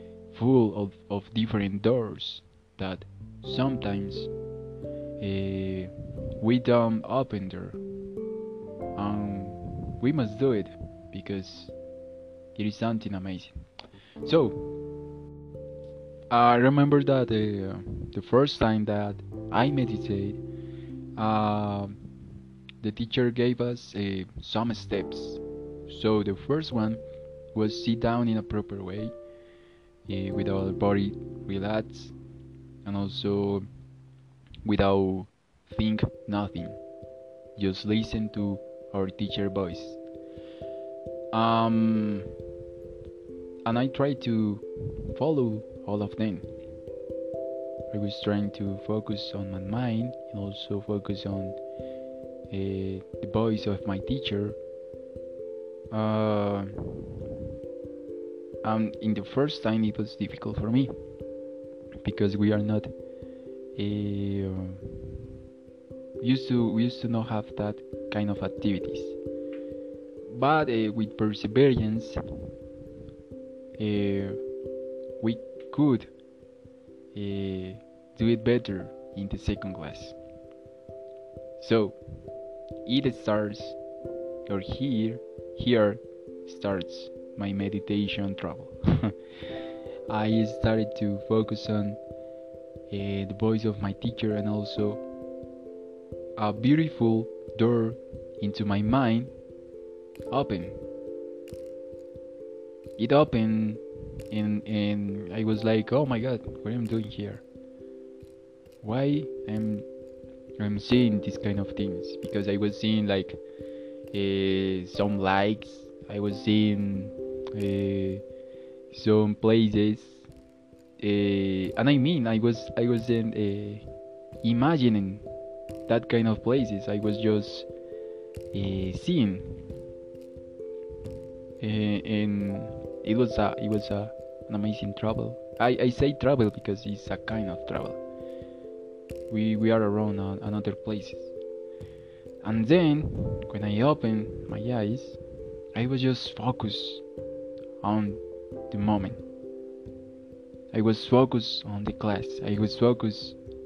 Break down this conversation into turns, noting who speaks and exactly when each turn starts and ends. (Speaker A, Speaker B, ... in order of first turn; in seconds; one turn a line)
Speaker A: 0.3-4.3
Speaker A: 5.2-7.8
Speaker A: 8.9-11.7
Speaker A: 12.5-13.5
Speaker A: 14.2-14.7
Speaker A: 16.3-20.4
Speaker A: 21.1-22.0
Speaker A: 22.8-27.0
Speaker A: 27.5-29.1
Speaker A: 30.1-32.1
Speaker A: 32.8-33.6
Speaker A: 34.6-36.8
Speaker A: 37.5-40.0
Speaker A: 41.3-42.3
Speaker A: 43.6-46.5
Speaker A: 47.9-51.6
Speaker A: 52.5-54.6
Speaker A: 55.9-57.3
Speaker A: 58.6-60.9
Speaker A: 62.0-62.9
Speaker A: 63.8-65.4
Speaker A: 66.2-69.2
Speaker A: 70.3-72.2
Speaker A: 73.8-74.4
Speaker A: 75.2-76.1
Speaker A: 77.1-80.2
Speaker A: 81.6-82.0
Speaker A: 82.8-83.8
Speaker A: 84.5-92.0
Speaker A: 92.9-95.0
Speaker A: 96.4-99.3
Speaker A: 100.3-100.8
Speaker A: 103.0-107.4
Speaker A: 108.8-109.8
Speaker A: 110.6-113.4
Speaker A: 114.1-118.2
Speaker A: 118.9-120.3
Speaker A: 121.0-123.8
Speaker A: 124.4-125.2
Speaker A: 125.9-127.7
Speaker A: 128.5-129.8
Speaker A: 131.6-138.0
Speaker A: 139.3-141.3
Speaker A: 142.4-145.2
Speaker A: 145.7-147.0
Speaker A: 147.8-149.2
Speaker A: 150.7-153.4